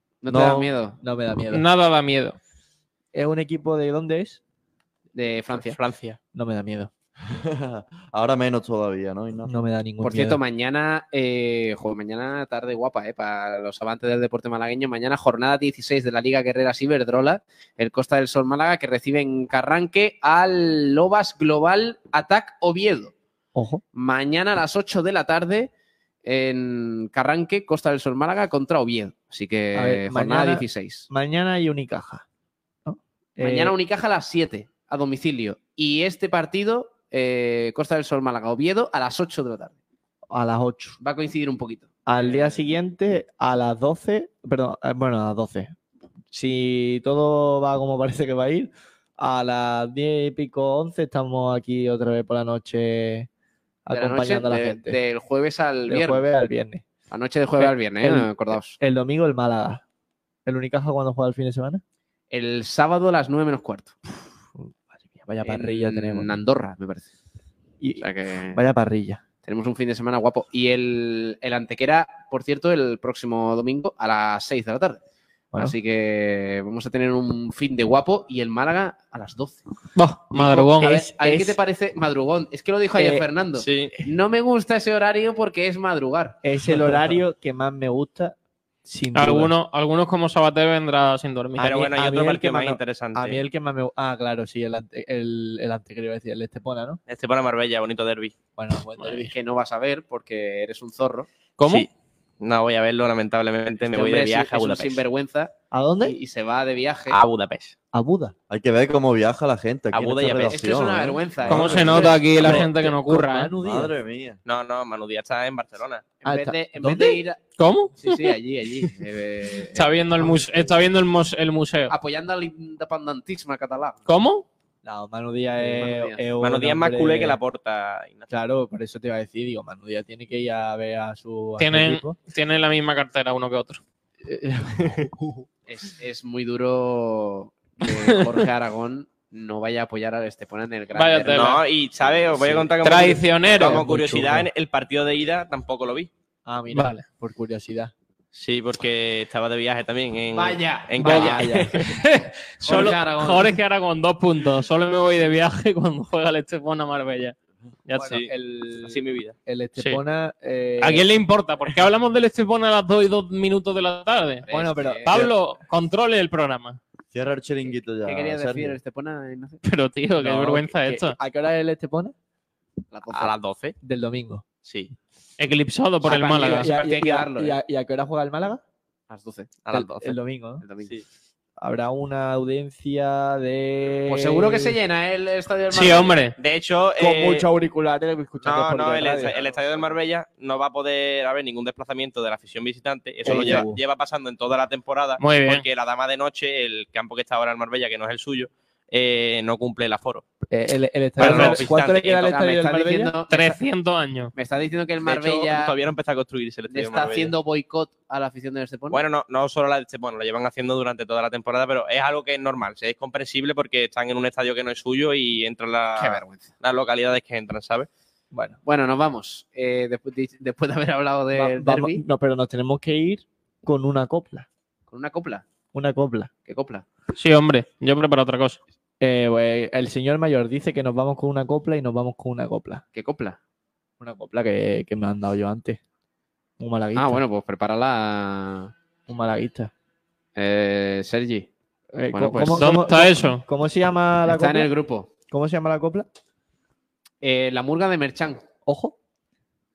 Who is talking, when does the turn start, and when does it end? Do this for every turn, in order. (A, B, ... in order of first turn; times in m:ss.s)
0:00.2-0:01.0 A
0:00.3-0:01.6 B
0:01.5-0:02.4 C
0:03.1-0:04.4 B
0:05.1-0:05.8 A
0:06.3-0:06.9 B
0:07.3-0:09.5 D
0:09.4-0:10.4 B
0:10.0-0:23.1 A
0:23.5-0:23.8 B
0:23.9-0:25.7 A
0:26.2-0:31.0 A
0:29.7-0:32.2 B
0:32.8-0:33.7 B
0:33.4-0:39.8 A
0:40.3-0:41.0 B
0:41.0-0:42.6 A
0:42.0-0:45.7 B
0:46.3-0:53.3 B
0:53.8-0:55.0 B
0:53.9-0:56.3 A
0:55.9-0:56.8 B
0:57.1-0:58.8 A
0:57.6-0:59.8 B
1:00.4-1:01.8 B
1:02.3-1:03.9 A
1:04.5-1:06.4 B
1:05.4-1:07.1 A
1:07.8-1:09.2 B
1:08.0-1:08.6 A
1:09.4-1:15.0 A
1:15.6-1:19.6 A
1:20.0-1:21.0 C
1:20.3-1:21.6 B
1:20.5-1:26.4 A
1:23.0-1:23.3 B
1:23.6-1:24.0 E
1:26.4-1:29.5 B
1:29.1-1:31.8 C
1:31.6-1:33.4 E
1:31.8-1:37.0 B
1:37.1-1:38.3 E
1:38.6-1:39.3 B
1:39.1-1:41.3 A
1:41.6-1:41.9 C
1:41.6-1:45.0 E
1:43.9-1:47.2 A
1:45.7-1:46.2 B
1:47.1-1:47.8 E
1:47.9-1:48.3 B
1:48.5-1:52.6 D
1:49.9-1:50.6 E
1:50.5-1:52.2 A
1:51.5-1:53.5 C
1:51.6-1:54.0 B
1:53.6-1:54.4 D
1:54.4-1:56.0 E
1:56.2-1:57.4 A
1:56.2-1:57.2 B
1:57.6-1:58.4 C
1:58.0-1:59.9 A
1:59.7-2:01.9 C
2:00.2-2:00.5 B
2:01.9-2:04.0 A
2:04.1-2:04.4 C
2:04.8-2:07.4 B
2:05.6-2:06.2 A
2:06.4-2:08.3 E
2:08.3-2:12.2 B
2:11.6-2:13.8 C
2:14.2-2:15.3 B
2:15.7-2:21.6 A
2:17.8-2:18.2 C
2:20.9-2:21.6 C
2:21.3-2:26.1 E
2:22.4-2:22.7 B
2:22.8-2:23.9 C
2:23.6-2:24.5 B
2:26.4-2:27.9 B
2:26.7-2:27.0 C
2:28.3-2:31.8 E
2:30.3-2:31.4 A
2:31.0-2:31.8 B
2:31.1-2:37.3 C
2:32.6-2:33.6 A
2:37.9-2:39.4 E
2:37.9-2:41.1 B
2:40.8-2:44.4 C
2:44.5-2:45.2 A
2:44.5-2:45.3 B
2:45.0-2:46.8 C
2:47.1-2:48.8 D
2:47.7-2:49.6 A
2:49.6-2:51.2 C
2:50.2-2:52.1 B
2:52.9-2:53.4 A
2:53.1-2:53.8 E
2:53.8-2:54.4 B
2:54.6-2:55.0 E
2:55.4-2:56.7 C
2:56.0-2:57.6 A
2:56.4-2:58.6 B
2:59.1-2:59.8 A
2:59.6-3:00.2 E
2:59.7-3:00.6 B
3:00.6-3:01.0 A
3:01.6-3:04.8 B
3:04.1-3:06.2 A
3:05.7-3:06.3 C
3:06.4-3:07.4 E
3:07.0-3:09.4 B
3:08.4-3:20.2 E
3:09.3-3:09.8 A
3:13.2-3:13.8 B
3:13.3-3:13.6 A
3:15.2-3:15.6 C
3:20.5-3:23.1 B
3:21.2-3:22.2 E
3:21.2-3:23.6 A
3:23.3-3:24.3 C
3:24.3-3:25.8 A
3:25.0-3:27.3 E
3:26.7-3:29.0 A
3:28.9-3:37.9 E
3:36.0-3:36.5 A
3:38.3-3:38.6 B
3:38.6-3:42.0 A
3:41.3-3:44.5 B
3:44.9-3:45.4 A
3:45.7-3:46.3 B
3:46.5-3:46.8 A
3:47.2-3:48.6 C
3:49.0-3:52.8 B
3:52.9-3:53.4 A
3:54.0-3:55.8 B
3:56.6-3:57.2 B
3:57.0-3:58.7 A
3:59.1-3:59.7 B
4:00.4-4:01.5 A
4:01.9-4:04.7 B
4:02.1-4:02.8 A
4:02.5-4:03.4 C
4:04.3-4:05.1 A
4:05.3-4:06.1 B
4:07.2-4:08.4 A
4:08.6-4:08.9 B